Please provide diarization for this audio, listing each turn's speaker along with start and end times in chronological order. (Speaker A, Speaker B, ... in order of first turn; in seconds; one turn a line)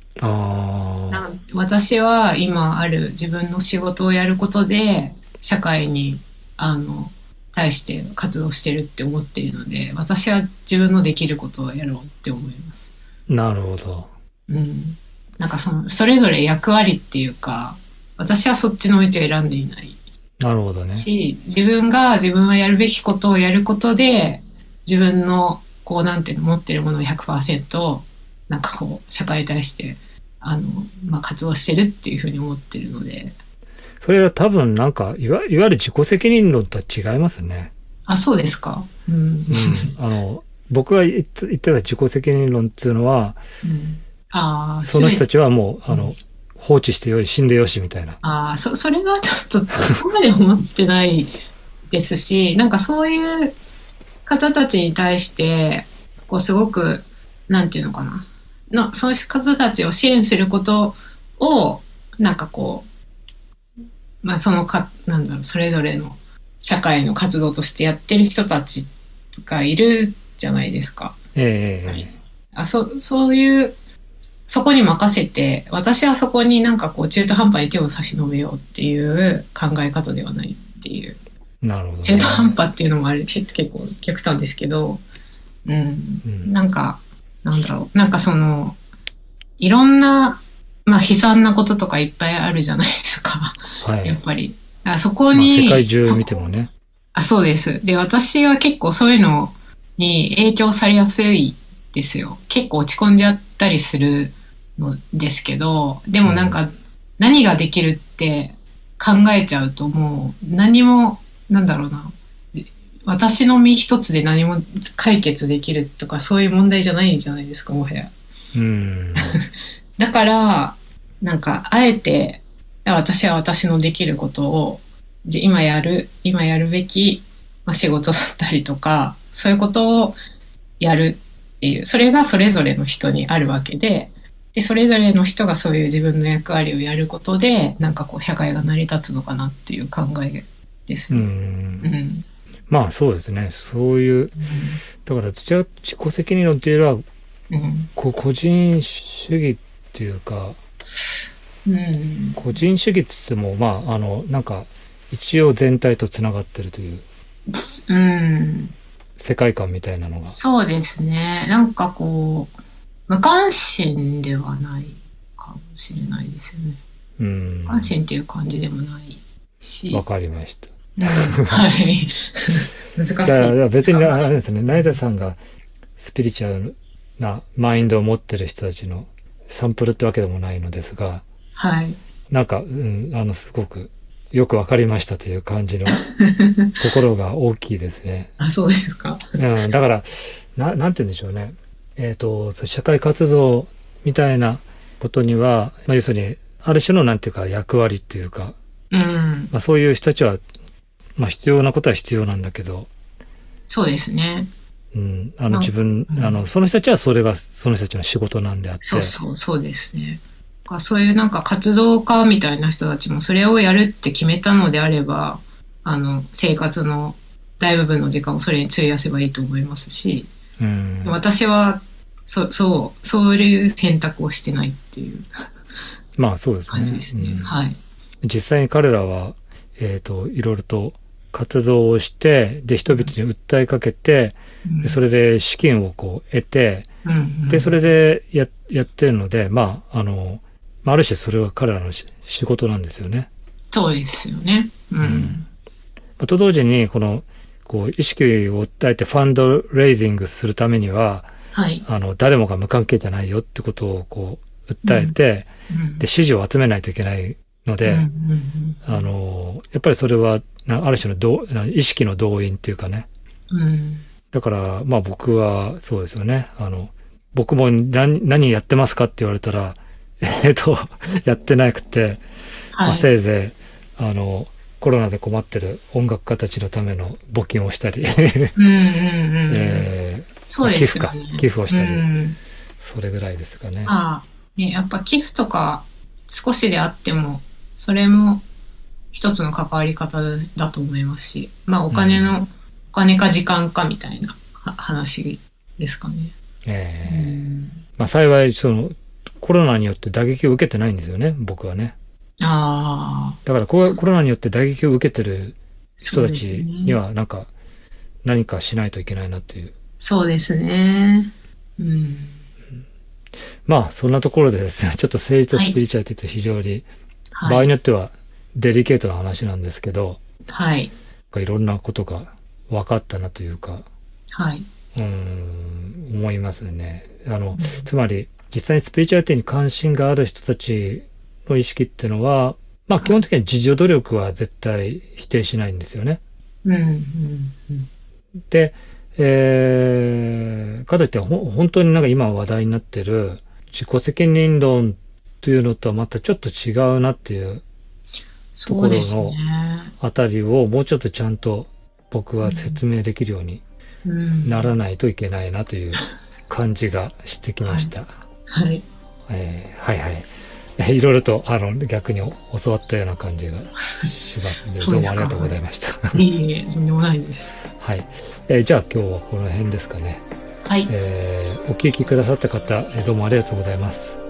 Speaker A: 0.2-1.2
Speaker B: 1.1-12.9
Speaker A: 13.3-14.1
Speaker B: 14.5-20.0
Speaker A: 20.4-21.1
Speaker B: 20.9-33.3
Speaker A: 34.0-37.7
Speaker B: 38.1-39.9
Speaker A: 39.5-43.4
Speaker B: 43.6-45.2
Speaker A: 44.8-48.2
Speaker B: 48.2-51.3
Speaker B: 51.9-53.5
Speaker B: 54.2-62.9
Speaker B: 64.2-71.2
Speaker A: 71.3-72.1
Speaker B: 71.8-73.8
Speaker B: 74.5-81.2
Speaker A: 81.6-82.5
Speaker B: 82.0-85.0
Speaker B: 85.7-88.8
Speaker A: 86.2-86.5
Speaker B: 89.6-96.4
Speaker A: 93.8-94.2
Speaker A: 95.3-96.7
Speaker B: 97.1-118.1
Speaker A: 106.2-106.6
Speaker A: 118.5-119.3
Speaker B: 119.2-119.5
Speaker B: 120.0-130.2
Speaker B: 130.8-141.3
Speaker A: 141.1-141.9
Speaker B: 141.8-142.2
Speaker A: 142.7-144.4
Speaker B: 144.4-144.8
Speaker A: 145.0-147.0
Speaker B: 147.5-147.9
Speaker A: 147.9-150.6
Speaker B: 151.7-152.4
Speaker A: 152.3-157.0
Speaker B: 157.5-158.7
Speaker A: 159.2-160.4
Speaker B: 160.2-162.5
Speaker B: 163.1-166.8
Speaker A: 167.2-167.9
Speaker B: 167.7-170.0
Speaker A: 169.9-171.6
Speaker B: 171.0-175.0
Speaker A: 173.2-175.4
Speaker A: 176.0-181.2
Speaker B: 181.6-182.0
Speaker A: 182.3-186.0
Speaker B: 185.9-186.8
Speaker A: 186.8-188.3
Speaker B: 188.4-189.2
Speaker A: 189.4-198.5
Speaker B: 198.9-199.5
Speaker A: 199.5-200.4
Speaker A: 201.2-202.9
Speaker B: 203.7-204.5
Speaker A: 204.9-209.1
Speaker B: 205.5-206.4
Speaker B: 208.8-220.3
Speaker A: 220.6-221.2
Speaker B: 221.0-225.3
Speaker A: 226.2-227.5
Speaker B: 226.7-227.8
Speaker A: 228.2-236.9
Speaker B: 234.6-235.0
Speaker B: 237.0-237.8
Speaker A: 237.5-243.3
Speaker B: 243.7-245.5
Speaker A: 245.0-245.4
Speaker A: 246.2-251.3
Speaker B: 251.5-251.8
Speaker A: 251.8-255.5
Speaker B: 254.8-255.1
Speaker B: 255.7-256.0
Speaker A: 256.0-258.1
Speaker B: 257.8-259.0
Speaker A: 258.9-263.1
Speaker B: 263.5-264.0
Speaker A: 264.3-272.2
Speaker B: 272.7-273.1
Speaker A: 272.8-278.5
Speaker B: 278.6-279.9
Speaker A: 279.5-282.0
Speaker B: 280.5-282.4
Speaker A: 282.8-283.9
Speaker B: 283.9-288.4
Speaker B: 289.1-296.3
Speaker A: 291.9-292.4
Speaker A: 296.6-297.4
Speaker B: 297.1-297.8
Speaker A: 298.0-301.9
Speaker B: 302.4-304.0
Speaker A: 303.4-307.5
Speaker B: 306.0-307.0
Speaker A: 308.2-309.7
Speaker B: 310.0-312.4
Speaker A: 313.6-316.8
Speaker B: 317.3-317.7
Speaker A: 317.4-320.2
Speaker B: 320.5-320.9
Speaker A: 321.3-323.8
Speaker B: 324.3-324.7
Speaker A: 324.9-336.2
Speaker B: 327.6-327.9
Speaker B: 336.6-337.9
Speaker A: 338.5-347.6
Speaker B: 348.5-349.9
Speaker A: 348.6-349.4
Speaker A: 350.0-353.6
Speaker B: 352.4-352.8
Speaker B: 354.0-354.7
Speaker A: 354.4-358.1
Speaker B: 357.6-357.9
Speaker B: 358.5-358.8
Speaker A: 359.3-366.2
Speaker B: 364.8-365.6
Speaker B: 366.1-367.6
Speaker A: 367.8-370.2
Speaker B: 370.6-370.9
Speaker A: 370.9-374.2